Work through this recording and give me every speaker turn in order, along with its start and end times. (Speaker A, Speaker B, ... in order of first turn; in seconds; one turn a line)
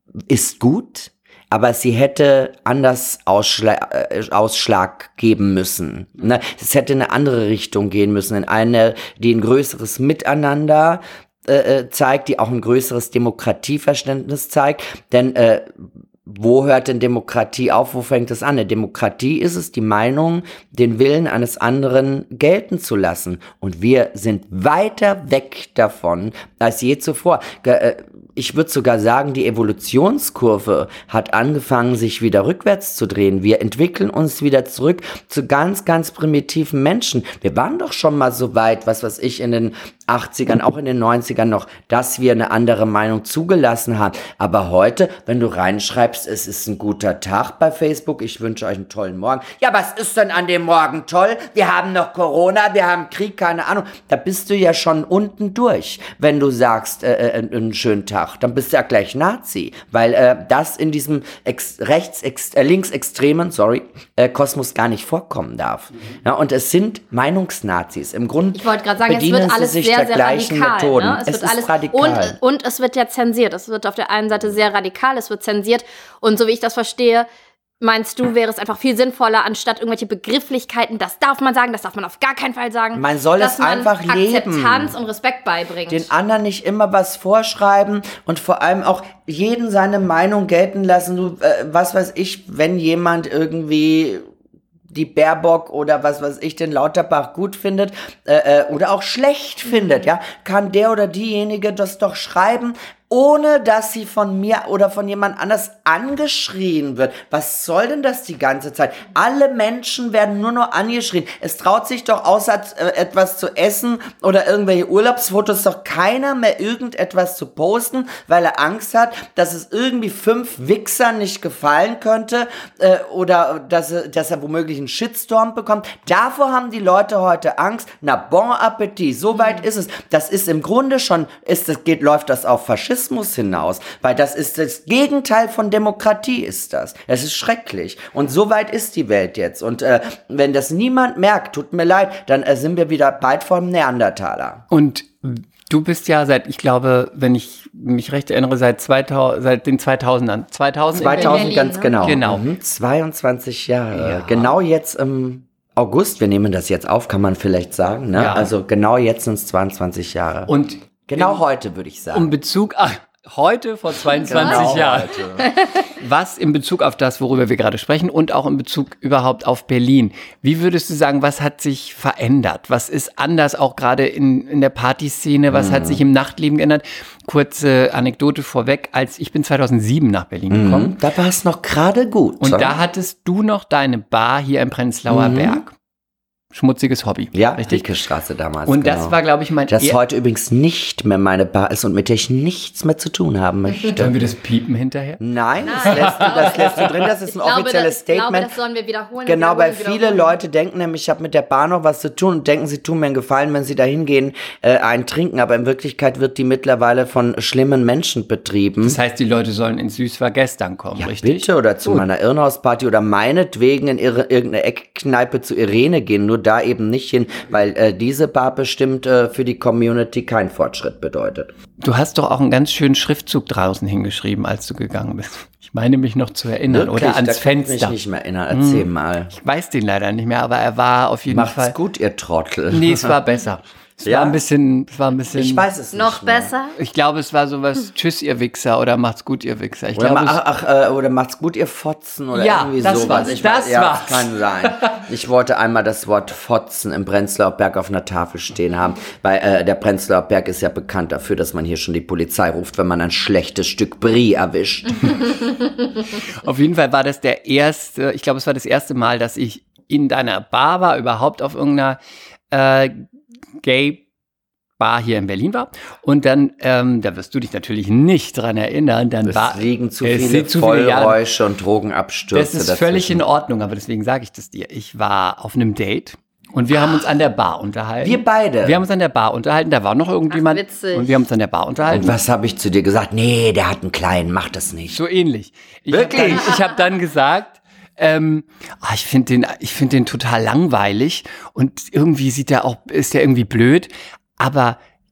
Speaker A: 0.3-72.4
Speaker B: 68.5-77.3
Speaker B: 77.8-86.0
Speaker A: 82.9-84.9
Speaker A: 85.9-94.2
Speaker A: 94.9-144.6
Speaker C: 144.7-152.4
Speaker A: 150.9-160.5
Speaker B: 151.1-152.0
Speaker C: 153.9-154.5
Speaker C: 158.1-158.5
Speaker C: 160.5-161.4
Speaker A: 161.1-162.3
Speaker C: 162.1-180.9
Speaker A: 164.3-165.5
Speaker A: 175.5-176.0
Speaker A: 180.5-182.8
Speaker C: 182.4-185.7
Speaker A: 185.1-185.6
Speaker C: 186.5-187.8
Speaker A: 187.3-189.1
Speaker C: 188.7-190.0
Speaker A: 189.7-194.3
Speaker C: 193.9-195.2
Speaker A: 195.2-198.5
Speaker B: 195.6-200.3
Speaker C: 195.7-196.9
Speaker A: 199.2-209.0
Speaker C: 208.8-212.0
Speaker A: 211.0-221.5
Speaker C: 221.8-228.0
Speaker A: 226.7-229.3
Speaker C: 228.5-231.7
Speaker A: 231.3-233.1
Speaker C: 232.7-235.7
Speaker A: 234.0-234.4
Speaker A: 235.3-236.5
Speaker B: 235.9-236.7
Speaker C: 236.8-240.4
Speaker A: 239.9-255.1
Speaker C: 242.3-245.0
Speaker C: 256.1-262.0
Speaker C: 262.5-263.1
Speaker C: 263.6-264.0
Speaker C: 264.8-271.2
Speaker A: 269.2-273.2
Speaker C: 272.3-282.1
Speaker A: 278.0-278.8
Speaker B: 280.3-281.1
Speaker A: 281.9-285.0
Speaker C: 284.9-294.8
Speaker A: 285.9-286.6